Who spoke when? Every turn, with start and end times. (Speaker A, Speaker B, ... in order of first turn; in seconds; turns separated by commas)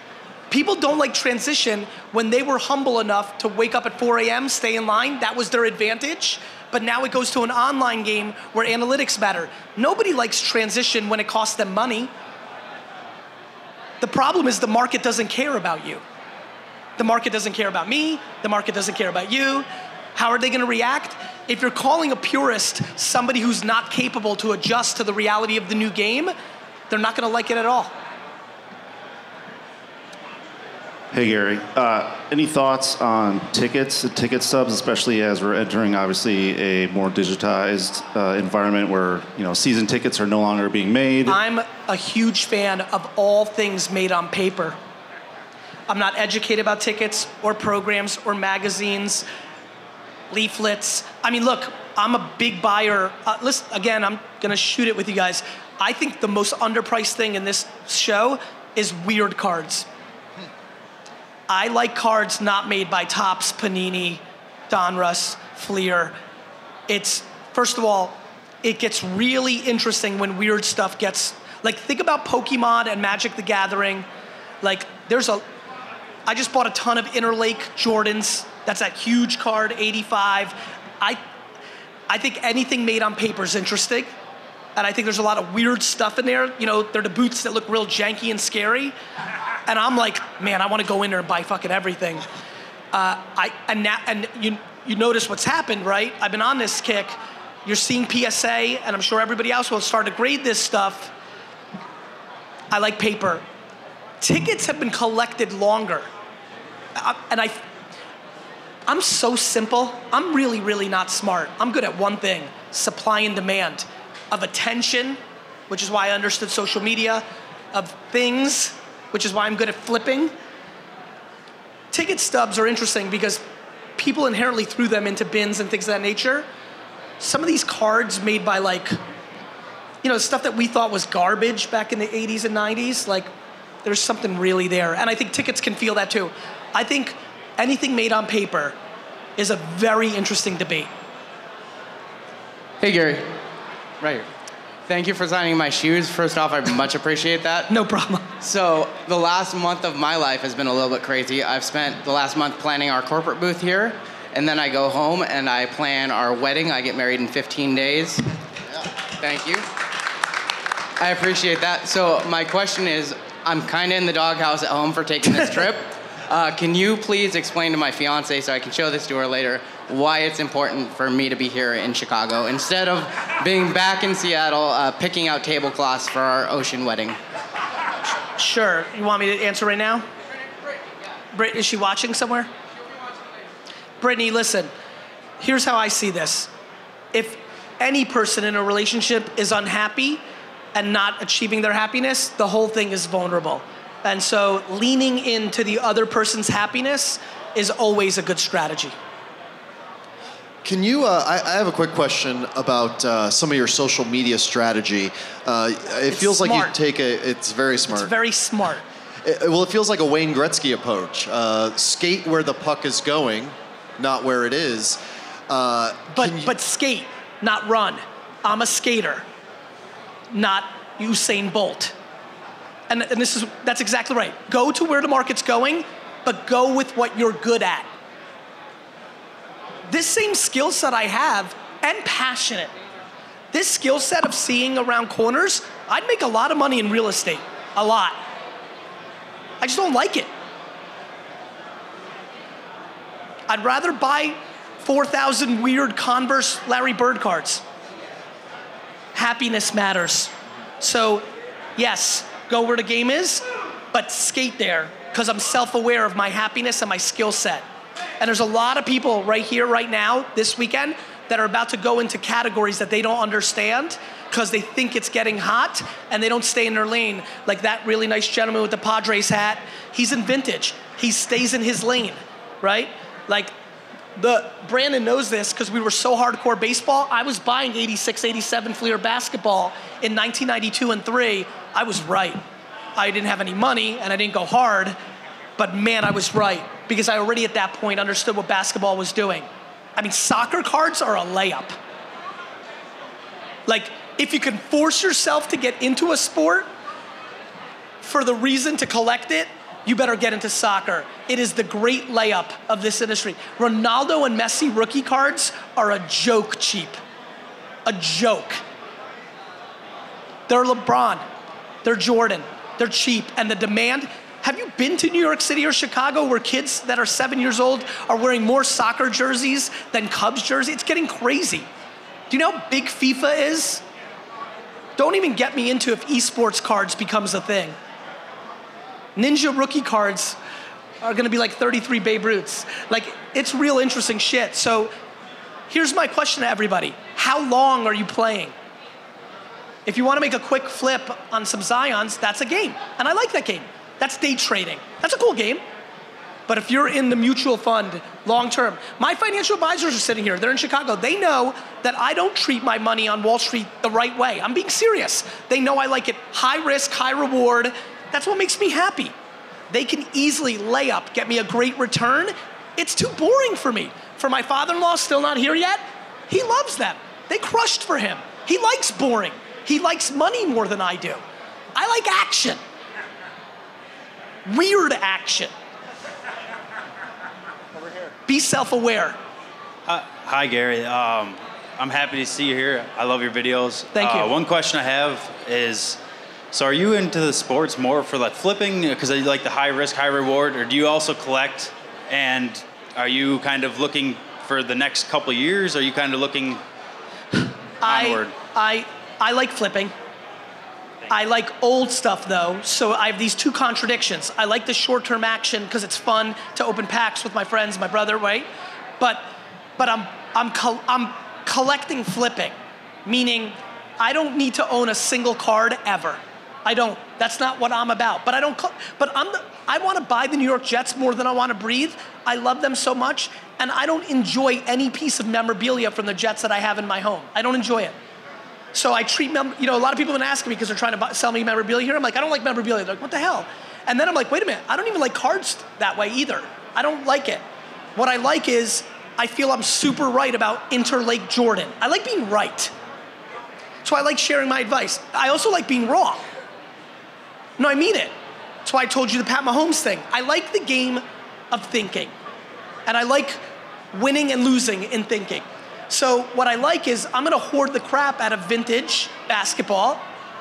Speaker A: 0.5-12.1, Speaker A: 14.0-16.0, Speaker A: 17.0-26.3, Speaker A: 26.9-27.9, Speaker B: 31.1-41.4, Speaker A: 41.3-44.8, Speaker A: 45.9-49.3, Speaker A: 50.3-59.9, Speaker A: 61.5-66.2, Speaker A: 66.9-74.1, Speaker A: 74.6-75.4, Speaker A: 76.3-81.2, Speaker A: 82.1-84.1, Speaker A: 84.8-89.0, Speaker A: 89.7-92.2, Speaker A: 92.9-101.1, Speaker A: 102.7-103.4, Speaker A: 104.2-106.1, Speaker A: 107.0-107.6, Speaker A: 108.9-115.2, Speaker A: 115.7-120.3, Speaker A: 121.9-123.4, Speaker A: 124.0-126.5, Speaker A: 127.2-128.9, Speaker A: 130.0-133.3, Speaker A: 133.8-138.8, Speaker A: 139.4-140.9, Speaker C: 142.8-143.3, Speaker C: 144.0-144.3, Speaker C: 144.9-147.7, Speaker A: 147.7-148.3, Speaker C: 148.4-158.2, Speaker C: 159.2-159.7, Speaker C: 161.0-177.2, Speaker A: 178.4-180.1, Speaker A: 181.3-182.5, Speaker A: 184.0-184.7, Speaker A: 185.4-186.5, Speaker A: 187.1-190.2, Speaker A: 190.8-198.9, Speaker D: 200.6-208.1, Speaker A: 206.1-206.7, Speaker A: 207.9-208.8, Speaker D: 209.2-215.0, Speaker D: 215.5-216.5, Speaker A: 216.1-219.3, Speaker A: 220.3-221.9, Speaker A: 222.9-227.9, Speaker A: 229.9-232.7, Speaker A: 233.5-238.2, Speaker A: 239.6-240.3, Speaker A: 243.5-247.6, Speaker A: 249.2-257.6, Speaker A: 258.2-273.5, Speaker A: 274.2-282.4, Speaker A: 283.0-285.0, Speaker A: 285.6-291.8, Speaker A: 293.7-296.7, Speaker A: 298.0-307.0, Speaker A: 307.9-308.6, Speaker A: 310.5-311.2, Speaker A: 311.8-321.7, Speaker A: 322.3-323.8, Speaker A: 325.0-327.8, Speaker A: 329.2-330.4, Speaker A: 331.0-334.9, Speaker A: 335.7-338.5, Speaker A: 339.9-345.6, Speaker A: 346.5-359.1, Speaker A: 359.7-371.2, Speaker A: 371.8-372.6, Speaker A: 374.5-375.5, Speaker A: 378.3-379.2, Speaker E: 379.9-386.0, Speaker A: 383.9-384.3, Speaker E: 386.5-396.6, Speaker A: 397.8-399.9, Speaker E: 397.8-398.4, Speaker A: 401.1-408.5, Speaker A: 409.0-409.3, Speaker A: 409.8-412.6, Speaker A: 413.1-428.0, Speaker A: 428.7-437.4, Speaker A: 438.0-442.7, Speaker A: 443.8-446.2, Speaker A: 447.6-448.1, Speaker A: 448.6-452.1, Speaker A: 452.9-453.4, Speaker A: 453.9-460.0